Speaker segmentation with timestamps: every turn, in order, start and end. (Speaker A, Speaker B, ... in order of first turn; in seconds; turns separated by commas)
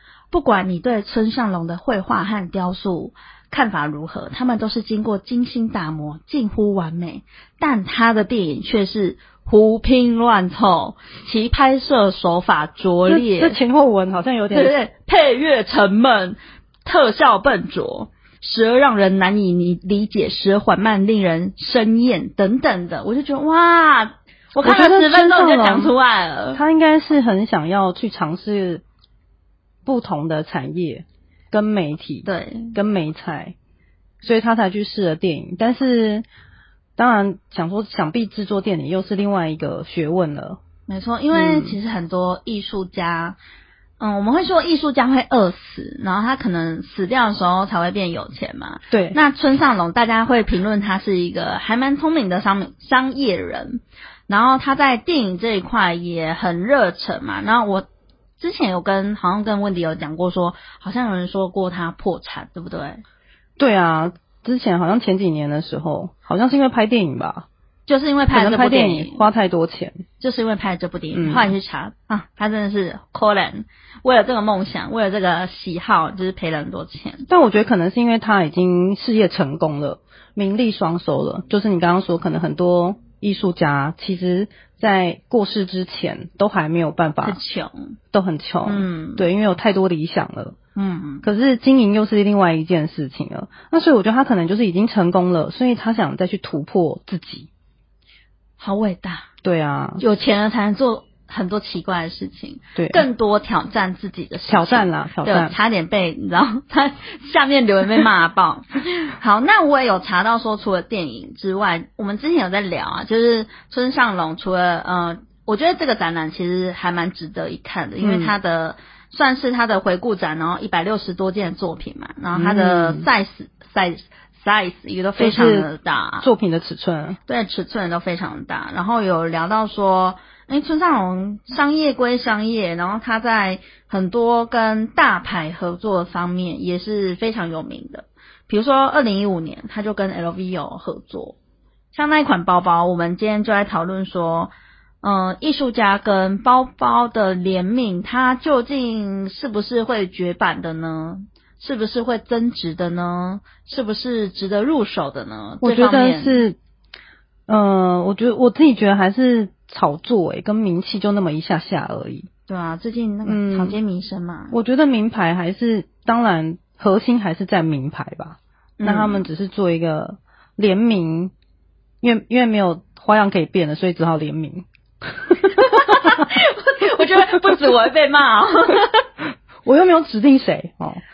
Speaker A: 0.3-13.6, Speaker B: 13.1-14.7, Speaker A: 14.5-26.6, Speaker B: 24.6-25.9, Speaker B: 26.5-28.8, Speaker B: 29.9-33.5, Speaker A: 32.2-32.8, Speaker B: 34.2-36.2, Speaker B: 37.0-40.6, Speaker A: 40.9-43.4, Speaker B: 41.3-41.8, Speaker A: 44.0-57.9, Speaker B: 48.9-49.2, Speaker A: 58.4-63.0, Speaker B: 63.6-67.5, Speaker A: 67.9-69.2, Speaker B: 68.3-70.0, Speaker A: 70.2-77.2, Speaker B: 71.1-71.5, Speaker B: 77.3-87.4, Speaker A: 87.2-87.9, Speaker B: 88.1-90.5, Speaker A: 88.6-89.2, Speaker A: 90.8-91.2, Speaker B: 91.2-97.5, Speaker A: 98.6-99.3, Speaker B: 99.4-100.0, Speaker A: 100.0-126.2, Speaker B: 102.8-103.0, Speaker B: 104.5-105.5, Speaker B: 118.0-118.3, Speaker B: 122.3-123.0, Speaker B: 125.2-125.7, Speaker B: 126.2-127.2, Speaker A: 127.3-141.3, Speaker A: 141.9-144.5, Speaker A: 145.0-156.4, Speaker B: 155.6-156.6, Speaker B: 157.5-162.3, Speaker A: 162.5-164.5, Speaker B: 163.2-163.8, Speaker B: 164.5-171.3, Speaker A: 168.8-169.3, Speaker B: 172.0-175.5, Speaker A: 175.4-179.0, Speaker B: 179.6-181.0